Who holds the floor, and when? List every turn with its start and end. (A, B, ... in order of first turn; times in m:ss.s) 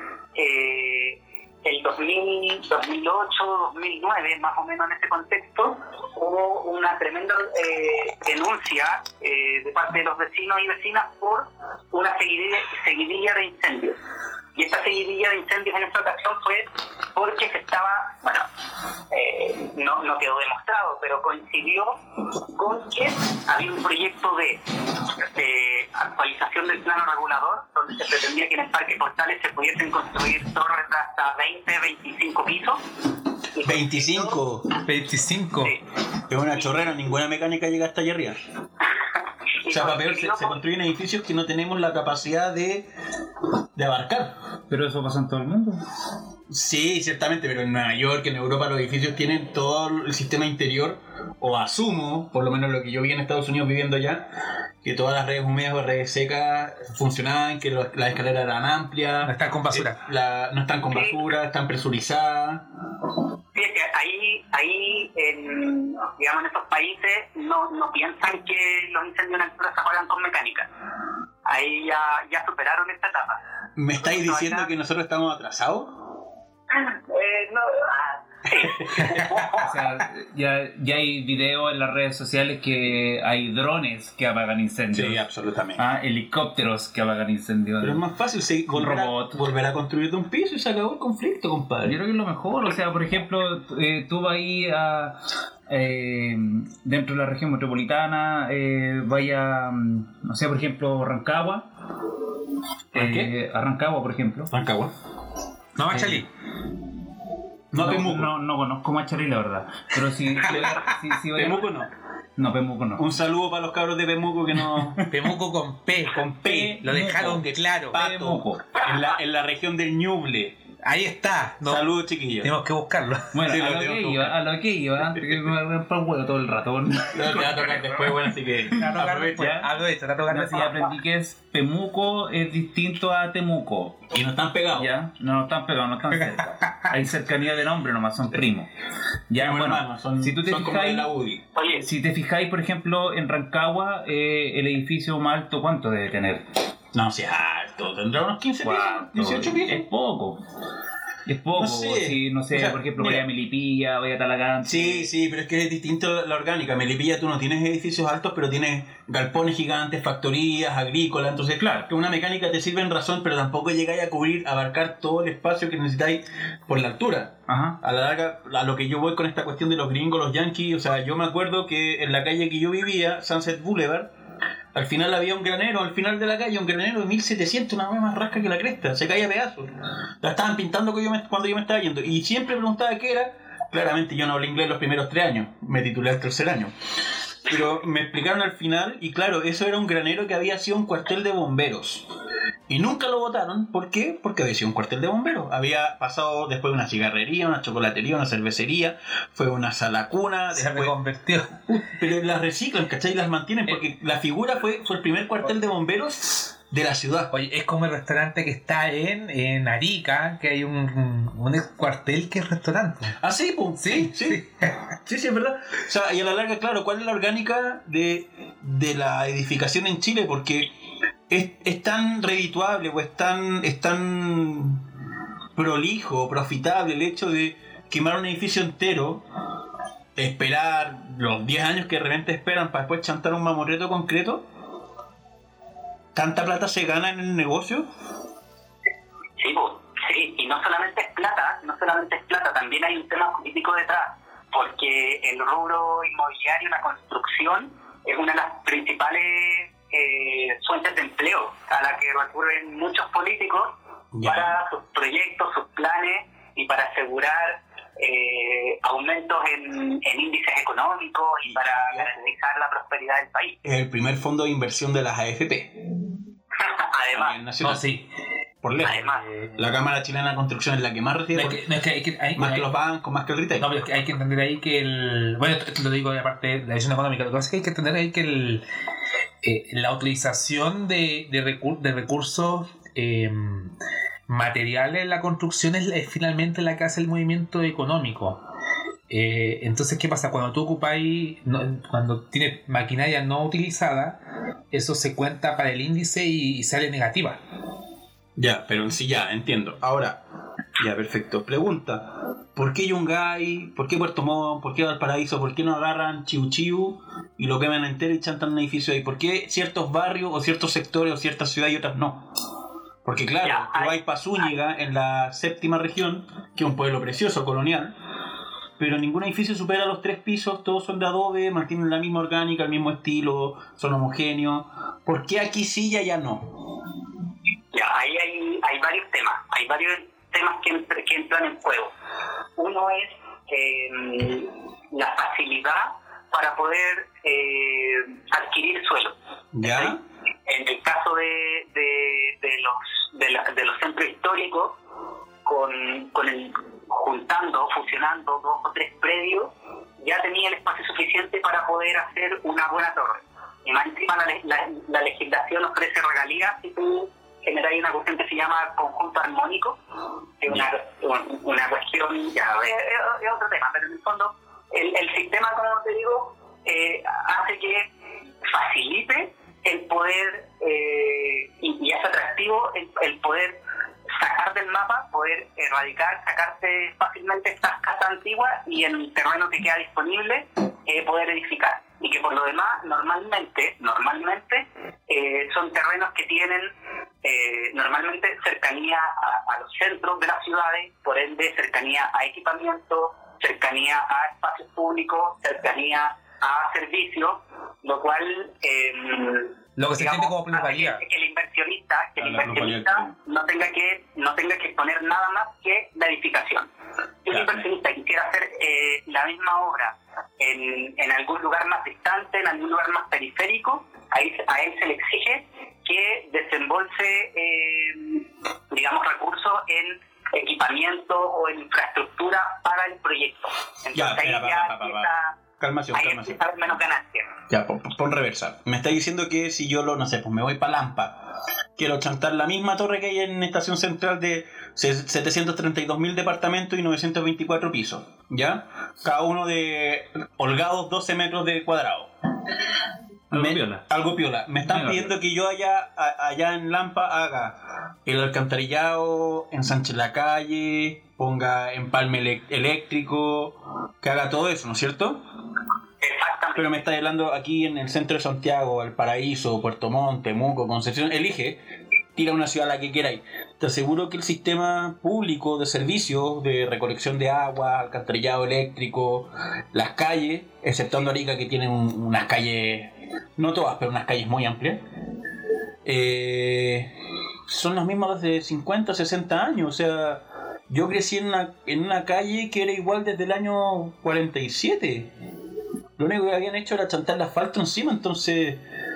0:00.4-0:14.0 A
0:14.5-0:18.5 A
0:19.1-0:22.0 A
0:22.5-0:24.6 A
0:25.1-0:32.8 A
0:33.5-0:34.4 A
0:33.6-0:34.7 B
0:34.8-0:35.8 C
0:36.3-0:38.4 B
0:39.6-0:40.6 A
0:39.7-0:42.9 B
0:43.7-0:44.3 B
0:44.7-0:45.8 D
0:46.5-0:54.2 B
0:54.8-1:02.6 B
0:59.2-1:00.0 C
1:03.5-1:10.7 A
1:11.4-1:13.4 A
1:13.8-1:16.0 B
1:14.0-1:14.7 A
1:16.7-1:19.7 A
1:18.5-1:19.1 B
1:19.0-1:19.3 C
1:19.5-1:25.2 D
1:24.9-1:25.8 B
1:25.8-1:28.1 D
1:27.8-1:32.0 B
1:28.7-1:29.4 D
1:31.8-1:35.2 D
1:35.7-1:41.7 D
1:42.9-1:43.3 B
1:42.9-1:44.5 D
1:44.5-1:44.9 B
1:45.8-1:46.3 C
1:45.9-1:46.2 D
1:47.7-1:48.3 B
1:47.7-1:51.8 D
1:50.5-1:50.8 B
1:51.3-1:51.9 B
1:52.4-1:53.0 D
1:53.0-1:55.0 B
1:55.1-1:58.0 C
1:56.1-1:56.9 B
1:56.4-1:58.8 D
1:57.9-2:00.6 B
2:00.8-2:01.9 C
2:01.6-2:02.5 B
2:02.4-2:03.6 C
2:03.3-2:08.1 D
2:03.5-2:04.4 B
2:05.1-2:05.4 B
2:07.1-2:09.6 B
2:08.8-2:10.9 C
2:09.3-2:09.7 D
2:10.3-2:14.1 D
2:14.1-2:14.9 B
2:14.7-2:18.7 D
2:16.2-2:17.0 C
2:19.3-2:21.1 D
2:19.4-2:21.4 B
2:21.5-2:21.9 A
2:21.7-2:26.4 D
2:26.9-2:29.9 B
2:28.6-2:30.4 D
2:31.2-2:35.1 D
2:31.5-2:33.2 B
2:34.6-2:54.1 B
2:41.6-2:41.9 D
2:47.5-2:47.8 D
2:54.7-3:06.7 B
3:07.4-3:12.0 B
3:12.7-3:20.9 B
3:20.5-3:21.7 C
3:21.7-3:27.3 B
3:27.3-3:33.1 C
3:33.2-3:40.7 B
3:33.8-3:34.8 C
3:41.3-3:44.8 B
3:45.6-3:49.2 B
3:50.2-3:54.4 B
3:56.1-3:57.9 B
3:59.4-4:13.7 A
4:14.1-4:14.5 B
4:14.2-4:23.6 A
4:21.5-4:22.3 B
4:23.6-4:25.7 B
4:26.6-4:27.4 A
4:27.1-4:27.8 B
4:27.6-4:28.1 C
4:28.6-4:31.6 B
4:28.8-4:29.3 A
4:29.3-4:29.6 C
4:31.3-4:32.6 C
4:32.4-4:33.7 B
4:33.6-4:38.6 C
4:39.4-4:43.7 C
4:44.3-4:48.4 C
4:49.1-4:54.2 C
4:54.7-4:57.4 C
4:58.4-5:00.2 B
5:00.8-5:12.3 B
5:13.0-5:17.9 B
5:13.4-5:14.5 A
5:18.8-5:26.5 B
5:27.7-5:31.9 A
5:32.6-5:44.8 A
5:39.5-5:40.0 B
5:45.4-5:49.5 A
5:50.0-5:59.8 A
6:00.4-6:07.8 A
6:08.4-6:13.5 A
6:14.1-6:26.7 A
6:27.2-6:46.7 A
6:39.8-6:41.0 C
6:42.2-6:43.1 B
6:47.2-7:05.3 A
6:47.3-6:47.6 B
7:03.9-7:06.4 B
7:05.9-7:07.3 A
7:07.5-7:22.1 B
7:23.3-7:23.8 D
7:23.3-7:35.2 B
7:24.6-7:25.1 D
7:36.0-7:36.7 A
7:36.6-7:41.6 B
7:42.1-7:54.8 B
7:55.8-7:56.9 B
7:57.5-8:05.1 B
8:06.0-8:08.6 B